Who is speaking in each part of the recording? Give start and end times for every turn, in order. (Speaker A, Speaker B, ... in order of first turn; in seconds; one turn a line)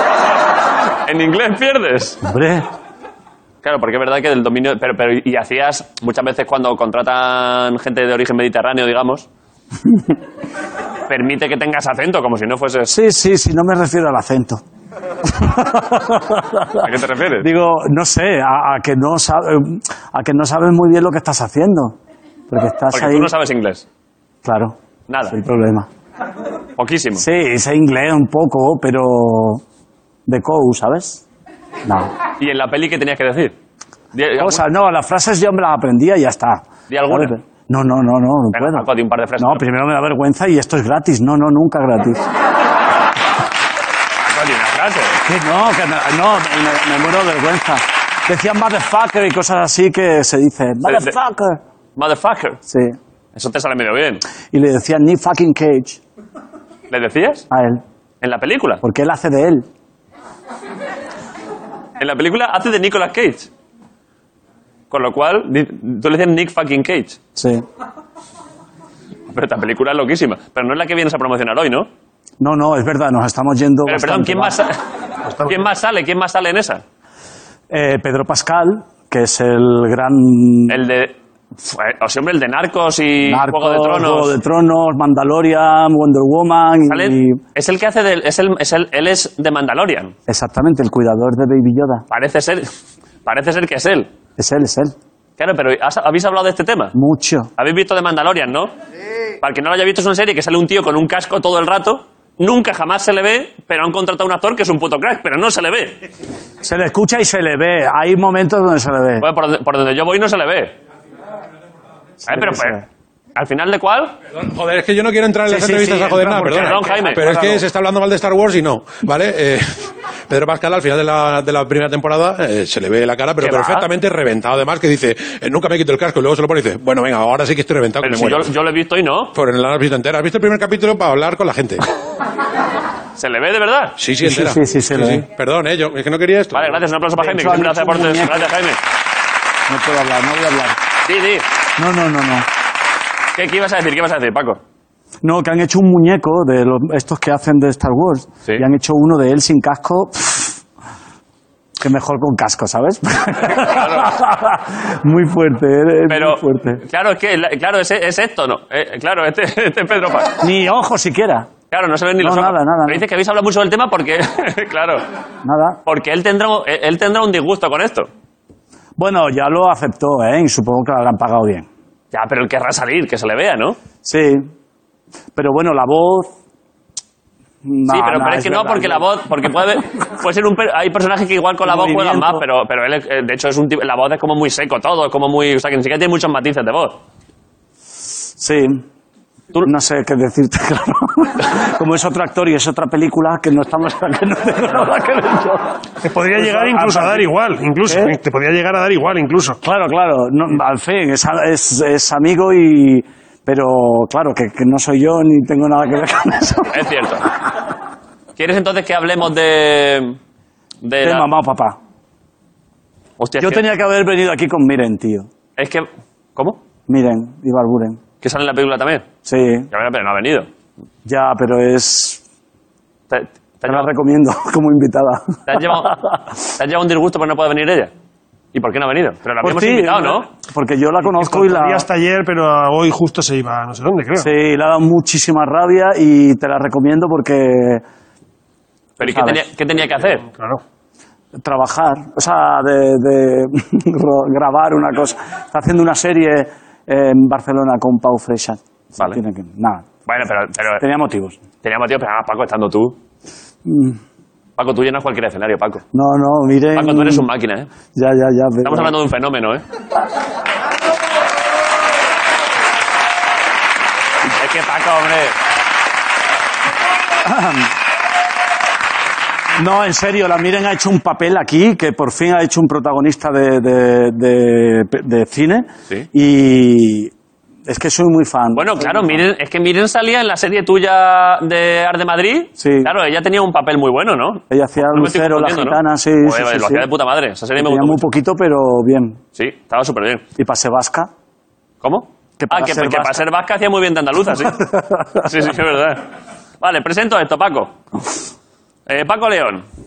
Speaker A: 1.1-2.2
Speaker B: 2.2-2.6
Speaker A: 3.6-9.2
Speaker A: 11.1-12.9
Speaker B: 12.9-14.6
Speaker B: 15.2-22.0
Speaker A: 16.8-17.5
Speaker B: 22.5-23.3
Speaker A: 22.9-23.8
Speaker B: 24.4-24.8
Speaker A: 25.1-25.4
Speaker B: 25.3-25.9
Speaker A: 26.8-27.2
Speaker B: 27.2-29.6
Speaker B: 30.2-31.2
Speaker B: 31.8-32.1
Speaker A: 32.4-33.5
Speaker A: 34.1-34.6
Speaker B: 34.4-38.9
Speaker A: 36.9-37.3
Speaker A: 38.5-39.6
Speaker B: 39.4-42.2
Speaker A: 44.2-45.2
Speaker B: 45.2-51.6
Speaker A: 50.8-51.1
Speaker A: 52.0-52.6
Speaker B: 52.6-53.0
Speaker A: 53.3-54.2
Speaker B: 54.5-56.0
Speaker A: 56.9-57.5
Speaker B: 57.5-57.8
Speaker A: 58.2-58.8
Speaker B: 58.8-59.7
Speaker A: 62.0-63.5
Speaker A: 64.9-67.2
Speaker B: 67.3-67.6
Speaker A: 69.3-71.9
Speaker B: 72.4-74.6
Speaker A: 73.8-74.8
Speaker C: 75.3-75.5
Speaker A: 75.4-76.8
Speaker B: 77.7-80.8
Speaker A: 80.7-84.3
Speaker B: 83.2-87.4
Speaker A: 86.9-90.1
Speaker B: 90.3-92.0
Speaker A: 92.1-92.7
Speaker A: 93.2-94.1
Speaker B: 94.4-94.9
Speaker A: 95.4-96.9
Speaker B: 96.9-97.5
Speaker A: 97.6-98.7
Speaker A: 99.4-106.0
Speaker B: 106.6-109.2
Speaker A: 109.2-110.8
Speaker B: 112.2-112.8
Speaker A: 112.2-112.8
Speaker A: 113.3-114.1
Speaker D: 114.3-128.5
Speaker B: 115.5-117.6
Speaker A: 116.5-117.2
Speaker A: 123.4-123.9
Speaker A: 128.0-129.3
Speaker D: 129.3-131.8
Speaker A: 133.2-133.9
Speaker D: 134.0-136.8
Speaker B: 134.2-135.2
Speaker A: 136.5-138.8
Speaker B: 137.2-138.5
Speaker B: 139.7-140.8
Speaker A: 141.1-141.4
Speaker B: 141.8-142.5
Speaker A: 143.3-144.6
Speaker B: 145.2-150.6
Speaker B: 151.8-156.8
Speaker A: 153.5-154.1
Speaker A: 156.1-160.4
Speaker B: 160.4-161.5
Speaker A: 161.7-165.0
Speaker B: 162.2-163.1
Speaker B: 165.4-165.8
Speaker A: 165.8-168.1
Speaker B: 169.0-171.7
Speaker A: 172.1-173.8
Speaker B: 174.0-174.5
Speaker B: 175.3-176.3
Speaker B: 177.6-179.1
Speaker A: 177.9-187.0
Speaker B: 181.6-182.4
Speaker B: 188.4-188.8
Speaker B: 189.6-197.3
Speaker C: 196.0-199.6
Speaker B: 197.8-198.2
Speaker B: 199.6-206.8
Speaker A: 206.7-207.2
Speaker A: 208.4-210.2
Speaker A: 210.8-211.3
Speaker B: 211.0-211.8
Speaker A: 213.2-213.6
Speaker B: 213.4-215.3
Speaker A: 215.6-216.6
Speaker B: 216.9-218.0
Speaker A: 218.2-219.1
Speaker B: 219.2-219.7
Speaker A: 219.7-220.5
Speaker B: 221.0-222.2
Speaker A: 223.1-223.9
Speaker B: 223.7-226.1
Speaker A: 225.4-227.9
Speaker A: 228.5-230.3
Speaker B: 229.4-231.9
Speaker C: 231.0-234.3
Speaker B: 234.2-237.8
Speaker A: 239.0-240.2
Speaker B: 239.0-239.4
Speaker C: 240.2-240.6
Speaker B: 241.3-249.9
Speaker A: 250.1-250.8
Speaker B: 250.8-251.4
Speaker A: 251.6-253.0
Speaker B: 253.6-254.0
Speaker A: 254.6-255.8
Speaker B: 255.9-257.3
Speaker A: 256.7-257.7
Speaker B: 257.9-258.9
Speaker A: 258.6-259.6
Speaker A: 264.3-265.3
Speaker B: 267.2-267.7
Speaker B: 269.6-277.1
Speaker B: 277.6-279.2
Speaker A: 278.5-288.0
Speaker B: 282.6-282.9
Speaker B: 284.5-286.9
Speaker B: 287.6-289.2
Speaker A: 289.4-290.2
Speaker B: 290.4-291.1
Speaker A: 291.8-296.0
Speaker B: 292.4-293.2
Speaker B: 294.6-295.2
Speaker A: 296.6-297.7
Speaker A: 298.9-299.6